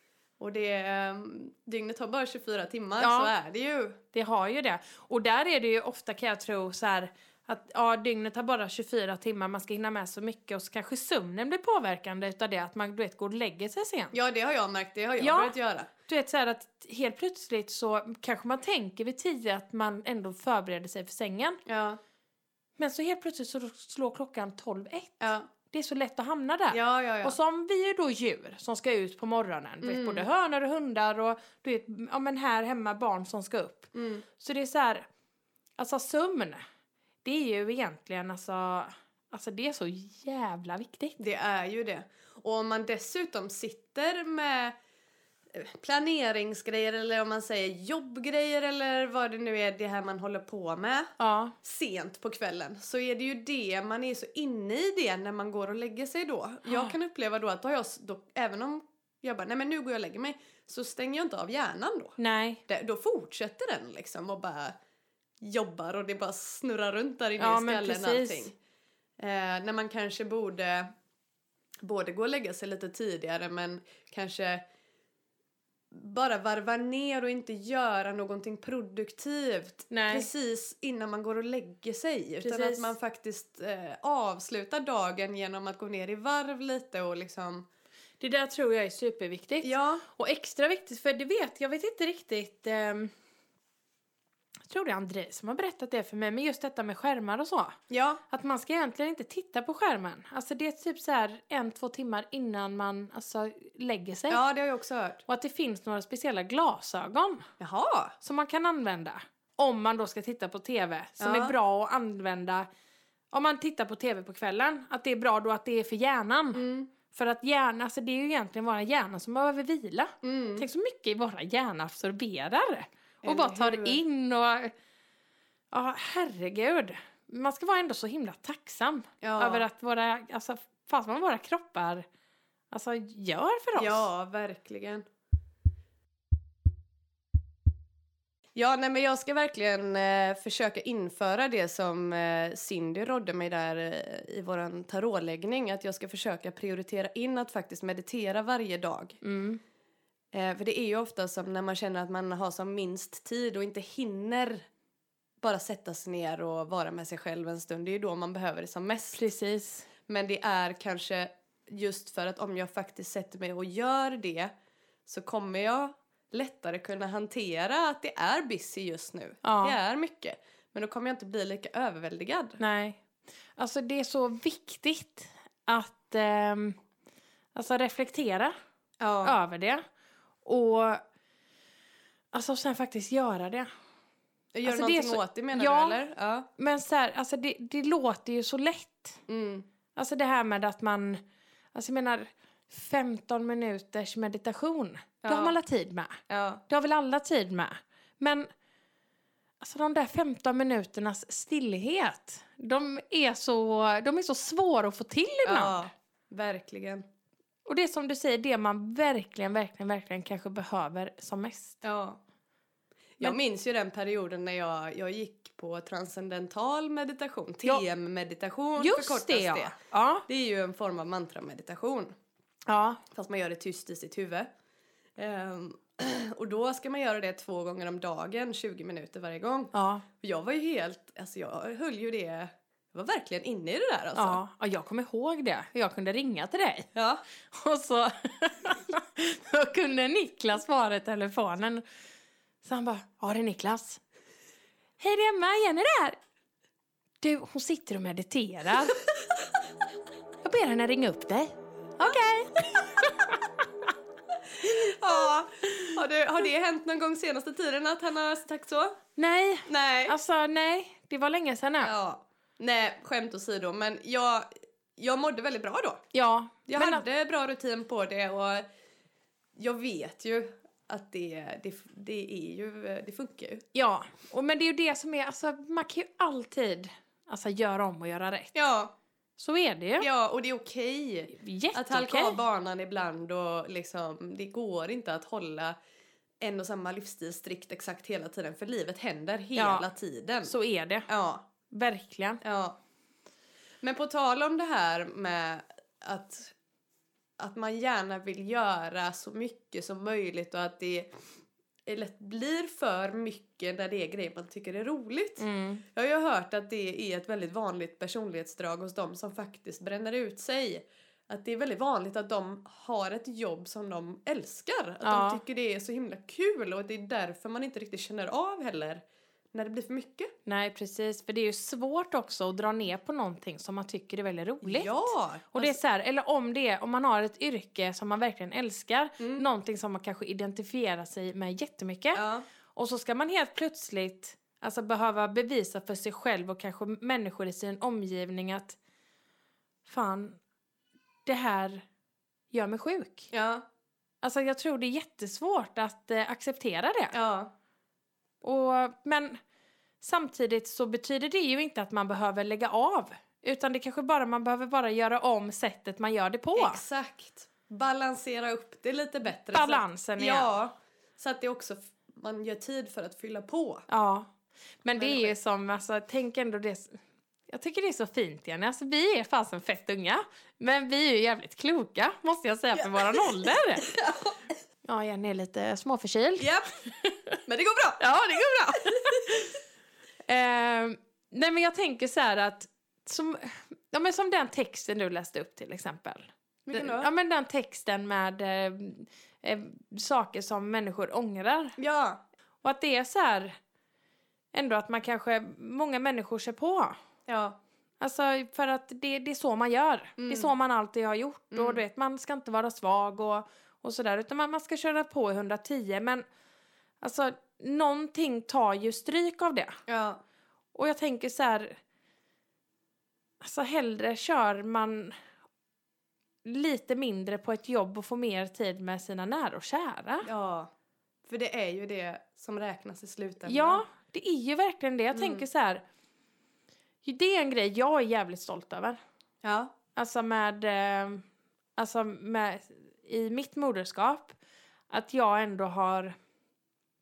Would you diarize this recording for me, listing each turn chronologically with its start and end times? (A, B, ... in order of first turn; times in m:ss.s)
0:00.4-0:04.0 A
0:03.0-0:03.3 B
0:04.1-0:14.1 B
0:14.1-0:15.9 A
0:15.2-0:21.6 B
0:21.6-0:22.0 A
0:22.8-0:35.0 B
0:25.2-0:25.5 A
0:26.7-0:27.4 A
0:29.8-0:30.3 A
0:33.9-0:34.2 A
0:35.8-0:36.6 B
0:37.2-0:41.2 B
0:41.2-0:44.8 A
0:45.5-0:51.1 A
0:51.2-0:51.5 B
0:51.6-1:02.2 A
0:56.6-0:56.9 B
1:02.2-1:02.6 B
1:02.7-1:04.8 A
1:05.4-1:08.5 A
1:07.4-1:08.5 B
1:09.2-1:10.9 A
1:11.8-1:14.6 A
1:15.9-1:27.6 A
1:19.9-1:20.3 B
1:22.4-1:22.9 B
1:28.2-1:33.1 B
1:29.6-1:30.0 A
1:34.7-1:37.8 B
1:37.9-1:38.2 A
1:38.3-1:44.4 B
1:44.3-1:45.2 A
1:45.3-1:47.5 B
1:47.6-1:48.1 A
1:48.2-1:52.7 B
1:51.2-1:51.5 A
1:53.3-2:04.7 B
1:56.5-1:56.9 A
2:00.2-2:00.6 A
2:03.2-2:04.0 A
2:05.7-2:12.0 B
2:09.2-2:09.6 A
2:12.7-2:14.1 B
2:13.8-2:15.0 A
2:18.6-2:29.2 A
2:29.2-2:29.6 B
2:30.3-2:34.7 A
2:35.4-2:39.2 A
2:39.1-2:39.9 B
2:40.1-2:44.5 A
2:45.0-2:52.6 A
2:49.4-2:49.8 B
2:52.6-2:53.0 B
2:53.6-2:56.8 B
2:57.5-2:58.5 B
2:59.0-2:59.3 A
2:59.2-2:59.8 B
3:00.4-3:01.0 B
3:02.3-3:03.7 B
3:04.5-3:06.5 A
3:04.6-3:06.0 B
3:06.6-3:09.2 B
3:09.3-3:09.7 A
3:09.9-3:11.2 B
3:11.7-3:18.5 B
3:15.2-3:15.6 A
3:16.3-3:16.6 A
3:19.6-3:25.9 B
3:25.4-3:27.0 A
3:27.6-3:31.8 B
3:31.8-3:32.2 A
3:33.2-3:39.8 A
3:38.8-3:40.2 B
3:40.3-3:42.1 A
3:42.7-3:43.0 B
3:43.1-3:44.5 A
3:45.2-3:54.4 A
3:49.7-3:50.0 B
3:54.1-3:56.9 B
3:56.9-3:57.2 A
3:57.4-4:01.8 B
4:02.6-4:04.0 B
4:05.0-4:06.2 B
4:07.2-4:09.0 B
4:10.4-4:13.6 B
4:14.5-4:19.0 A
4:19.2-4:21.9 B
4:19.7-4:20.2 A
4:21.8-4:26.0 A
4:26.1-4:27.0 B
4:26.7-4:28.6 A
4:29.6-4:33.6 A
4:33.7-4:38.5 B
4:38.5-4:38.9 A
4:39.4-4:40.1 B
4:40.0-4:45.8 A
4:41.3-4:42.4 B
4:46.4-4:50.5 A
4:49.5-4:49.9 B
4:50.4-4:51.1 B
4:51.1-4:51.4 A
4:51.7-4:52.4 B
4:52.4-4:52.8 A
4:53.8-4:56.5 A
4:57.4-5:01.2 A
5:01.8-5:20.3 A
5:05.4-5:05.8 B
5:15.0-5:15.4 B
5:20.4-5:38.8 B
5:24.6-5:25.8 A
5:29.2-5:29.4 A
5:32.1-5:32.5 A
5:39.8-5:40.4 B
5:41.2-5:41.8 B
5:42.5-5:43.3 B
5:43.3-5:43.6 A
5:44.2-5:47.1 B
5:47.1-5:47.5 A
5:48.4-5:49.4 B
5:50.0-5:56.8 B
5:56.6-6:03.8 A
5:59.5-6:00.5 B
6:03.9-6:04.3 B
6:04.8-6:13.9 B
6:05.0-6:05.3 A
6:12.8-6:14.4 A
6:14.8-6:17.4 B
6:16.4-6:16.7 A
6:17.5-6:18.0 A
6:18.0-6:19.5 B
6:20.3-6:31.8 B
6:26.7-6:27.1 A
6:31.8-6:32.2 A
6:32.6-6:33.6 B
6:34.5-6:36.9 B
6:37.3-6:37.6 A
6:38.0-6:46.2 B
6:40.2-6:40.5 A
6:41.5-6:41.8 A
6:47.0-6:49.7 B
6:49.9-6:50.2 A
6:50.7-6:51.8 B
6:53.4-6:55.2 B
6:56.4-7:00.3 B
7:00.2-7:00.7 A
7:01.2-7:03.8 A
7:03.4-7:05.8 B
7:05.1-7:05.4 A
7:07.0-7:09.0 B
7:09.4-7:09.7 A
7:09.9-7:11.2 B
7:11.8-7:14.4 B
7:14.9-7:16.1 B